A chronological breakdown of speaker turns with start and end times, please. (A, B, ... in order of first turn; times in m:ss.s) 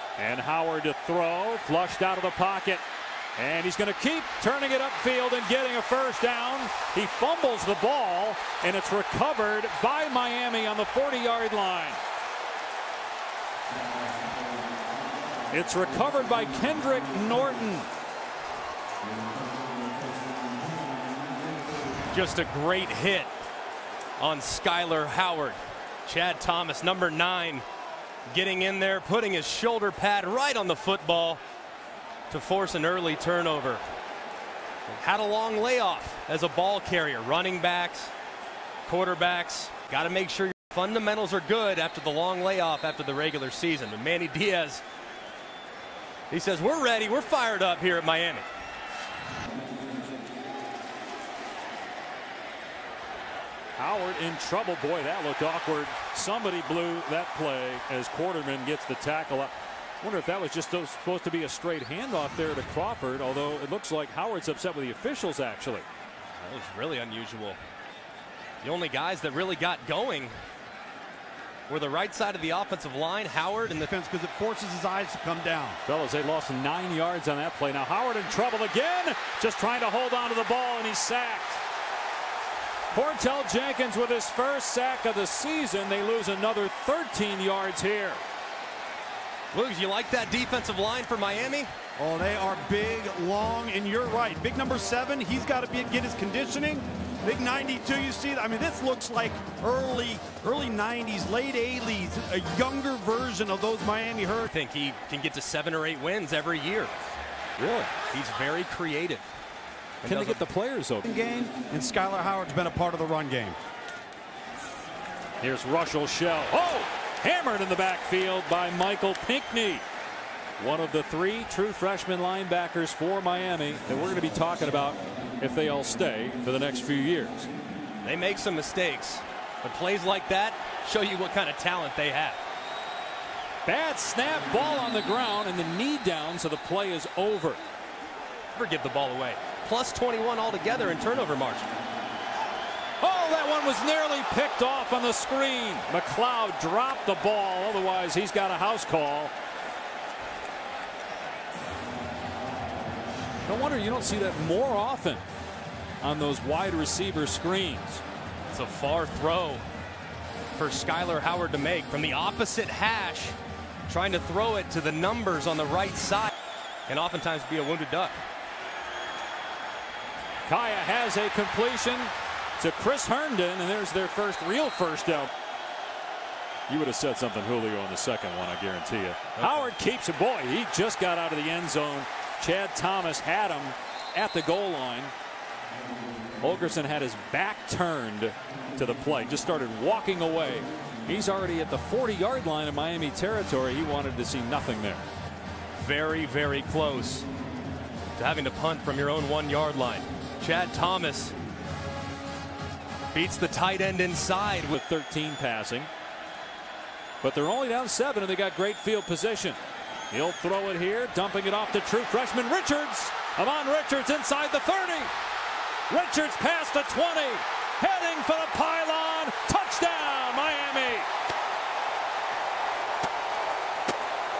0:00.2-0:02.8 A
0:03.4-0:12.0 A
0:15.5-0:17.9 A
0:22.1-0:23.3 B
0:24.2-0:27.6 B
0:28.3-0:31.4 B
0:32.3-0:33.8 B
0:34.9-0:38.1 B
0:38.9-0:44.8 B
0:46.3-0:48.5 B
0:53.8-1:05.9 A
1:06.4-1:07.6 B
1:08.6-1:10.4 B
1:11.7-1:13.9 B
1:13.8-1:15.8 C
1:15.9-1:21.6 A
1:22.9-1:28.2 A
1:29.5-1:31.7 B
1:32.0-1:44.5 C
1:44.5-1:46.9 B
1:47.6-1:47.9 A
1:48.1-1:49.3 B
1:50.0-1:51.0 A
1:50.0-1:50.4 B
1:51.0-1:53.6 C
1:55.4-1:59.8 A
2:00.6-2:07.5 A
2:08.0-2:12.4 B
2:13.6-2:17.6 A
2:18.6-2:21.7 B
2:23.0-2:29.3 A
2:33.5-2:35.2 A
2:36.0-2:38.0 A
2:38.5-2:39.6 B
2:40.6-2:43.4 B
2:43.9-2:46.3 B
2:46.9-2:48.2 B
2:50.5-2:55.3 A
2:56.7-3:05.1 A
2:59.4-2:59.7 B
3:06.4-3:15.0 A
3:15.8-3:17.3 B
3:18.2-3:21.3 B
3:23.1-3:24.7 B
3:24.7-3:25.9 A
3:27.2-3:29.6 A
3:30.1-3:35.1 A
3:35.9-3:41.1 A